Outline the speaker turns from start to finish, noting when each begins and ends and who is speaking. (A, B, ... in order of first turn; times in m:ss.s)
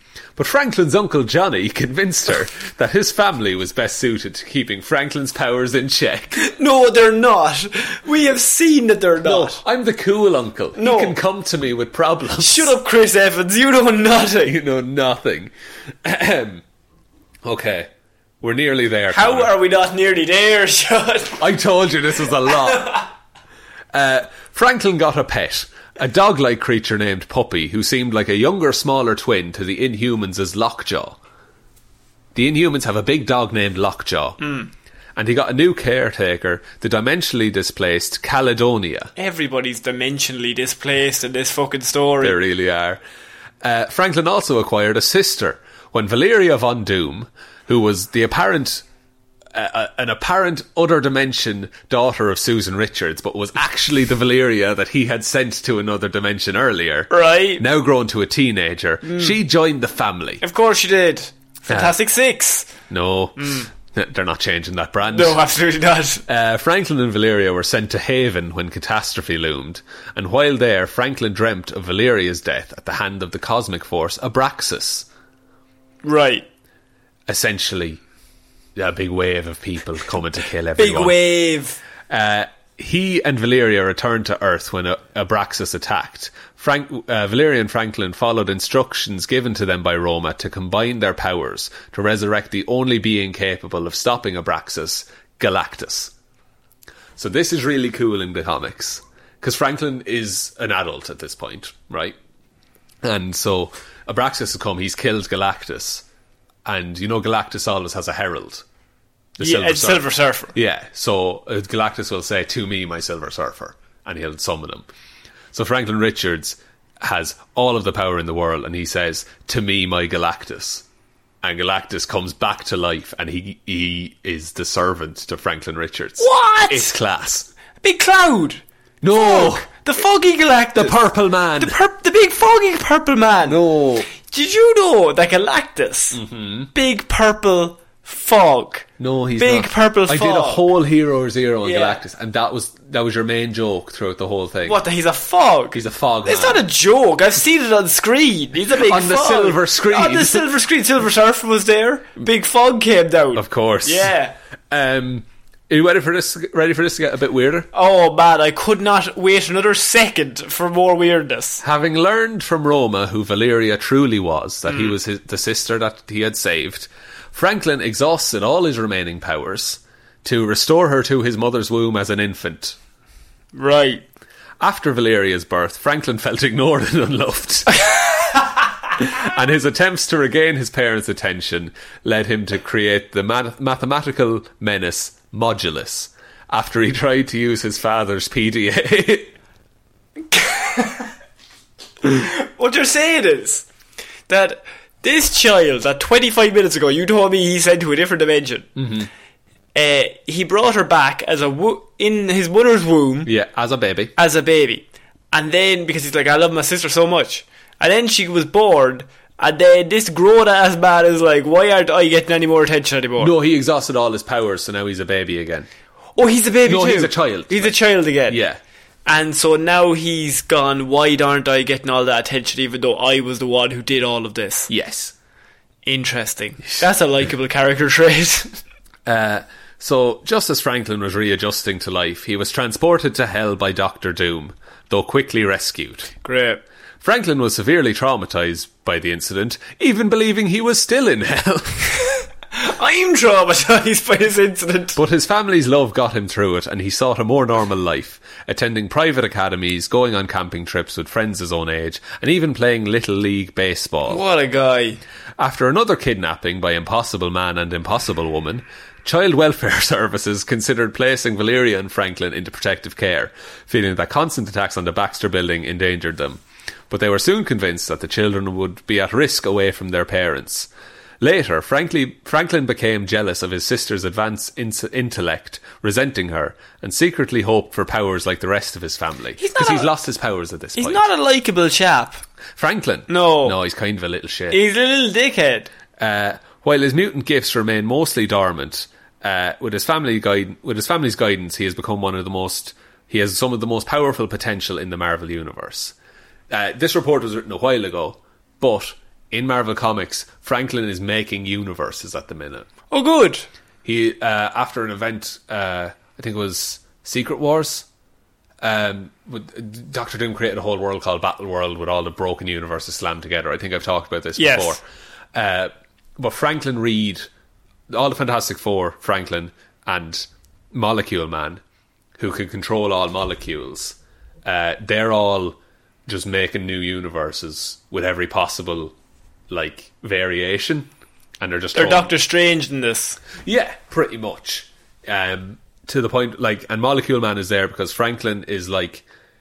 0:00.4-0:06.4 A
0:06.4-0:09.6 B
0:09.2-0:12.7 A
0:10.8-0:11.2 B
0:12.4-0:14.5 B
0:14.4-0:15.5 A
0:16.0-0:16.6 A
0:17.4-0:17.9 A
0:18.4-0:19.5 A
0:19.1-0:21.4 B
0:21.4-0:23.0 A
0:22.5-0:23.0 B
0:23.9-0:31.2 A
0:32.3-0:34.4 A
0:34.4-0:34.7 B
0:35.2-0:39.1 A
0:39.2-0:42.4 B
0:42.2-0:43.0 A
0:43.6-0:48.8 A
0:49.5-1:00.4 A
0:57.1-0:57.6 B
0:59.0-0:59.3 B
1:00.4-1:02.7 B
1:01.7-1:01.9 A
1:02.9-1:05.4 A
1:03.4-1:03.7 B
1:05.1-1:06.2 B
1:06.3-1:15.0 A
1:16.0-1:16.5 B
1:17.3-1:18.0 A
1:18.8-1:21.2 A
1:20.8-1:21.8 B
1:22.1-1:36.1 A
1:37.2-1:42.2 A
1:43.0-1:46.0 A
1:46.6-1:48.6 A
1:49.4-1:54.9 A
1:49.4-1:50.5 B
1:55.5-2:00.8 A
2:01.4-2:07.5 A
2:06.2-2:06.9 B
2:07.8-2:11.0 B
2:09.0-2:09.8 A
2:10.7-2:11.8 A
2:11.6-2:13.6 B
2:13.4-2:14.1 A
2:14.1-2:16.2 B
2:16.1-2:16.7 A
2:16.7-2:18.8 B
2:19.0-2:24.8 A
2:19.4-2:20.6 B
2:21.6-2:22.0 B
2:24.6-2:34.3 B
2:25.7-2:26.6 A
2:28.8-2:30.4 A
2:33.3-2:34.1 A
2:34.7-2:37.7 A
2:37.7-2:41.6 B
2:41.6-2:52.8 A
2:44.7-2:44.9 B
2:53.5-2:54.0 B
2:54.6-2:57.9 A
2:59.0-3:09.3 A
3:10.3-3:11.1 B
3:12.0-3:13.6 B
3:14.3-3:18.7 B
3:18.8-3:19.1 A
3:19.7-3:23.3 B
3:23.2-3:24.1 A
3:24.2-3:33.3 B
3:33.2-3:35.7 A
3:36.2-3:38.4 B
3:36.6-3:37.8 A
3:38.3-3:38.6 A
3:39.0-3:44.7 B
3:44.7-3:45.1 A
3:45.8-3:48.6 B
3:49.0-3:56.2 A
3:56.2-3:56.6 B
3:57.0-4:01.9 A
4:02.5-4:05.0 B
4:04.9-4:14.2 A
4:14.1-4:15.0 B
4:15.4-4:30.7 A
4:31.2-4:41.1 A
4:39.4-4:39.9 B
4:40.8-4:42.2 B
4:42.6-4:44.6 A
4:43.1-4:43.6 B
4:44.5-4:45.7 B
4:46.0-4:55.9 A
4:56.5-5:02.7 A
5:02.9-5:03.5 B
5:03.8-5:07.8 A
5:08.6-5:14.8 A
5:14.4-5:14.8 B
5:15.3-5:17.3 A
5:17.9-5:21.6 A
5:22.2-5:28.9 A
5:29.5-5:30.9 A
5:31.4-5:32.1 A
5:31.7-5:33.2 B
5:33.4-5:39.0 A